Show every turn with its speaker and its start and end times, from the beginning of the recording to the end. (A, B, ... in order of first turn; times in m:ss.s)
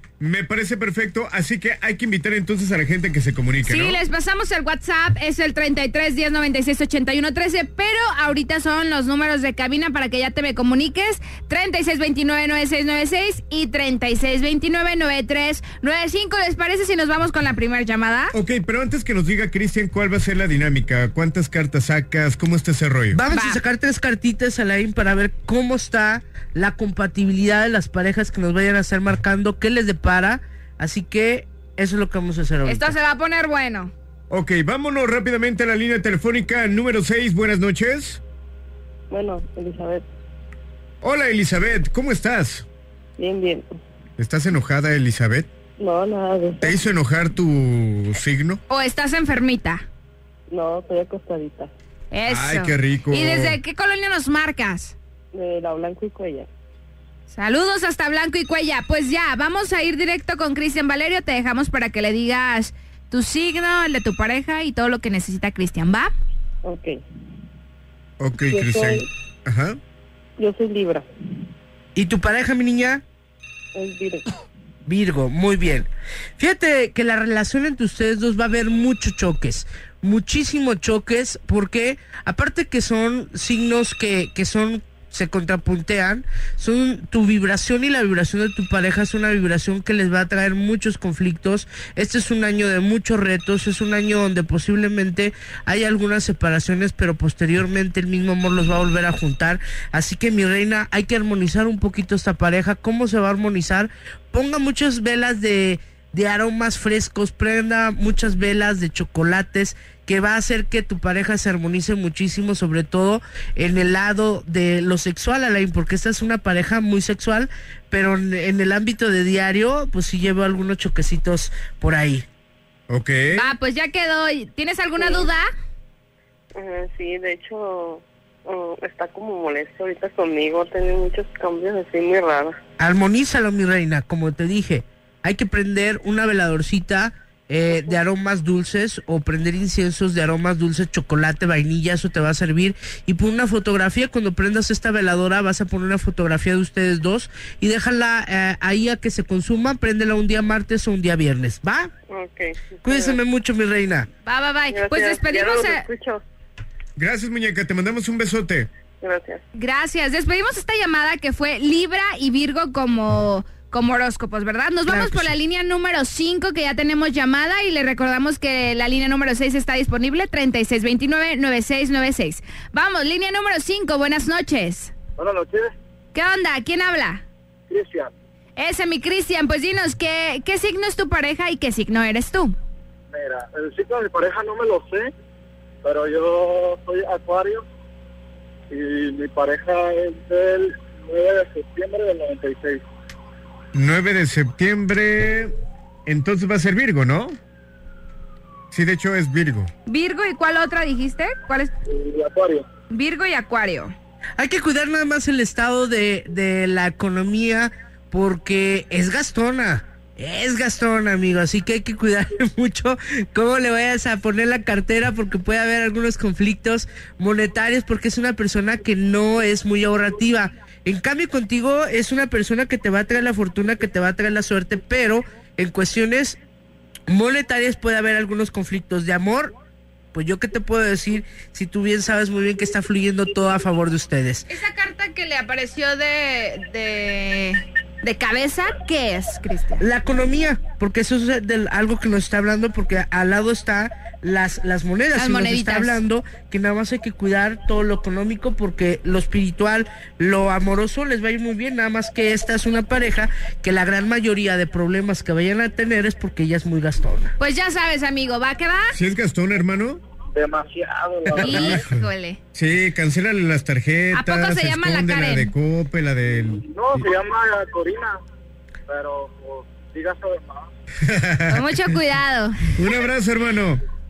0:00.2-0:04.0 A
0:03.6-0:18.3 B
0:18.3-0:23.2 A
0:23.1-0:32.9 C
0:23.3-0:23.6 B
0:32.6-0:33.9 B
0:34.3-0:38.2 A
0:39.1-0:40.0 D
0:41.0-0:42.7 A
0:43.2-0:43.7 D
0:44.2-0:45.5 A
0:45.8-0:46.7 D
0:46.6-0:48.6 A
0:48.7-0:49.8 B
0:50.5-0:51.7 D
0:52.1-0:55.0 B
0:52.3-0:53.6 A
0:55.3-0:56.5 D
0:57.3-1:06.1 B
1:06.6-1:07.0 D
1:08.2-1:09.8 A
1:08.5-1:09.1 D
1:10.4-1:11.1 D
1:12.0-1:13.0 C
1:13.8-1:14.3 D
1:14.9-2:02.2 C
2:02.9-2:03.4 A
2:03.3-2:05.5 B
2:05.0-2:05.3 D
2:06.6-2:12.6 D
2:12.8-2:31.9 C
2:17.7-2:18.0 D
2:32.1-2:33.2 D
2:32.8-2:34.1 C
2:34.3-2:35.8 B
2:34.7-2:36.2 D
2:37.0-2:38.7 A
2:39.0-2:39.4 D
2:39.6-2:54.9 B
2:44.9-2:45.3 C
2:55.2-2:55.7 E
2:56.1-2:57.2 B
2:57.7-2:58.1 E
2:58.6-3:02.6 B
3:03.1-3:05.1 E
3:05.8-3:07.6 E
3:08.7-3:12.8 E
3:13.7-3:15.6 A
3:16.1-3:17.4 A
3:18.7-3:19.7 A
3:19.9-3:21.7 B
3:21.9-3:22.7 E
3:22.9-3:23.9 B
3:24.4-3:46.4 C
3:47.1-3:49.5 C
3:50.1-3:54.5 C
3:54.5-3:59.8 B
3:59.8-4:17.3 C
4:05.2-4:06.0 B
4:17.4-4:18.9 B
4:18.9-4:20.0 A
4:20.3-4:21.8 E
4:21.4-4:22.4 B
4:21.4-4:26.6 A
4:24.1-4:25.5 B
4:26.6-4:28.2 E
4:28.9-4:30.7 E
4:31.0-4:32.0 A
4:31.5-4:32.8 B
4:32.8-4:33.8 A